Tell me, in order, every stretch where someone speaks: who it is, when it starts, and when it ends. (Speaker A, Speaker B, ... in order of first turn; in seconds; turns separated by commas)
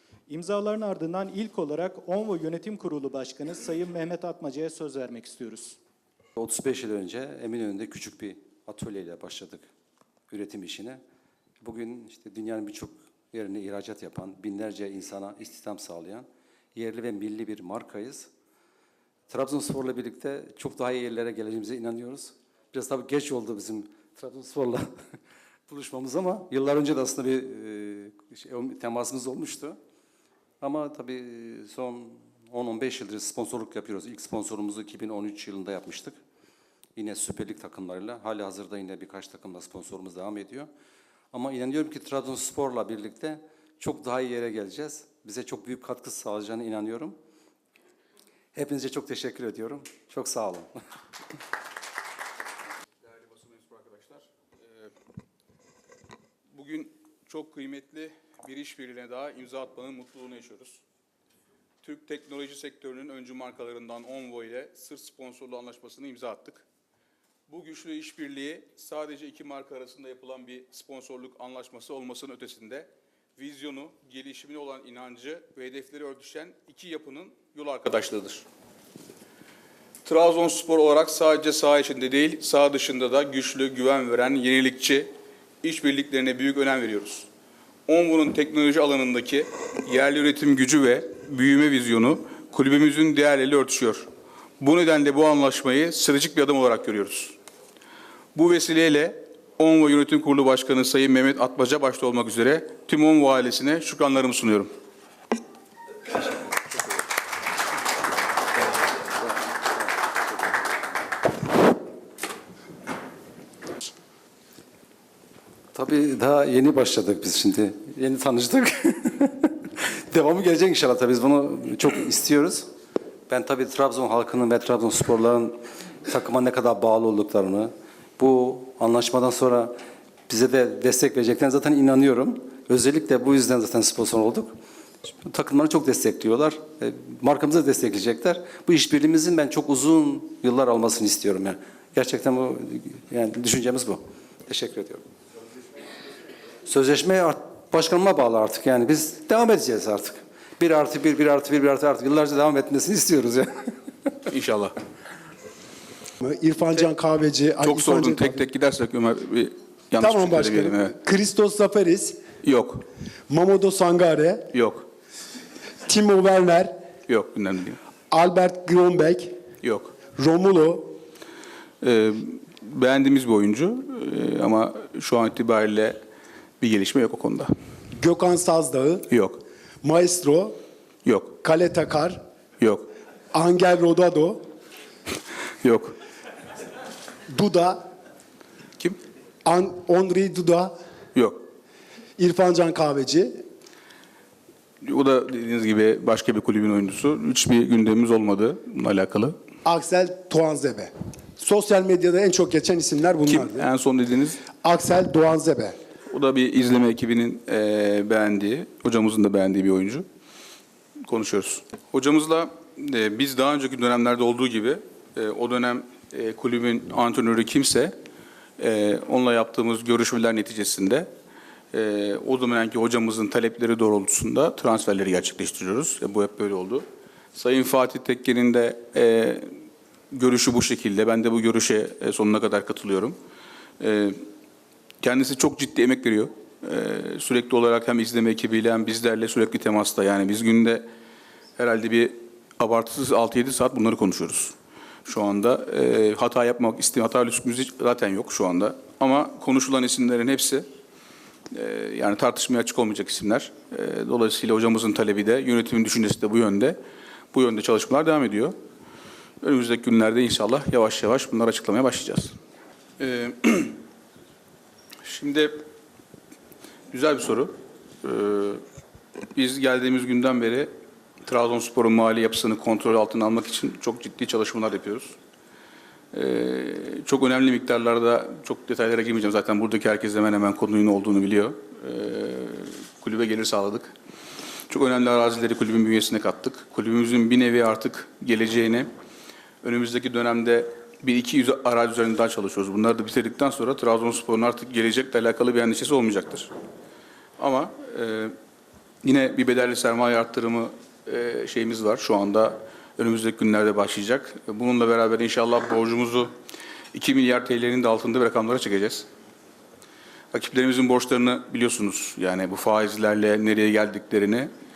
Speaker A: 0.3-5.8, Speaker B: 6.3-9.7, Speaker B: 10.3-11.0, Speaker B: 11.6-18.3, Speaker B: 19.3-24.9, Speaker B: 25.7-29.8, Speaker B: 30.6-36.2, Speaker B: 37.0-40.7, Speaker B: 41.3-47.1, Speaker B: 48.5-50.7, Speaker C: 53.0-54.9, Speaker C: 56.5-60.8, Speaker C: 61.8-66.6, Speaker C: 67.5-78.4, Speaker C: 80.0-85.1, Speaker C: 85.6-87.3, Speaker C: 87.9-94.1, Speaker C: 94.6-97.4, Speaker C: 98.3-104.7, Speaker B: 115.7-122.7, Speaker B: 123.3-129.7, Speaker B: 130.3-134.5, Speaker B: 135.0-145.0, Speaker B: 146.7-153.7, Speaker C: 154.2-154.7, Speaker D: 156.2-158.4, Speaker C: 157.6-160.9, Speaker D: 160.0-162.2, Speaker C: 162.4-162.8, Speaker D: 163.3-164.5, Speaker C: 164.5-164.8, Speaker D: 165.8-166.7, Speaker C: 167.1-167.8, Speaker D: 168.1-169.3, Speaker C: 169.6-169.9, Speaker D: 170.2-170.9, Speaker C: 171.8-176.0, Speaker C: 176.6-177.5, Speaker D: 177.9-179.0, Speaker C: 179.1-179.4, Speaker D: 179.8-180.6, Speaker C: 181.0-181.3, Speaker D: 181.4-182.2, Speaker C: 182.6-182.9, Speaker D: 183.3-184.4, Speaker C: 185.6-185.9, Speaker D: 187.3-187.8, Speaker D: 189.4-190.7, Speaker C: 191.1-191.4, Speaker D: 192.2-193.4, Speaker C: 194.8-199.3, Speaker D: 199.6-203.7, Speaker C: 203.2-204.4, Speaker D: 204.6-205.8, Speaker C: 206.1-210.0, Speaker C: 211.1-217.9, Speaker C: 218.6-221.1, Speaker C: 221.7-226.8, Speaker C: 227.3-229.5, Speaker C: 230.1-233.2, Speaker C: 233.8-234.2, Speaker C: 235.0-240.8, Speaker C: 241.6-244.5, Speaker C: 245.1-250.6, Speaker C: 251.5-256.8, Speaker C: 257.3-258.5, Speaker C: 259.4-262.3, Speaker C: 263.0-263.8, Speaker C: 265.0-265.6, Speaker C: 266.9-268.6, Speaker C: 269.3-270.7, Speaker C: 271.2-275.1, Speaker C: 276.1-283.9, Speaker C: 284.7-288.9, Speaker C: 289.6-296.5, Speaker C: 297.4-298.3, Speaker C: 299.0-306.3, Speaker C: 306.9-309.1, Speaker C: 310.3-314.5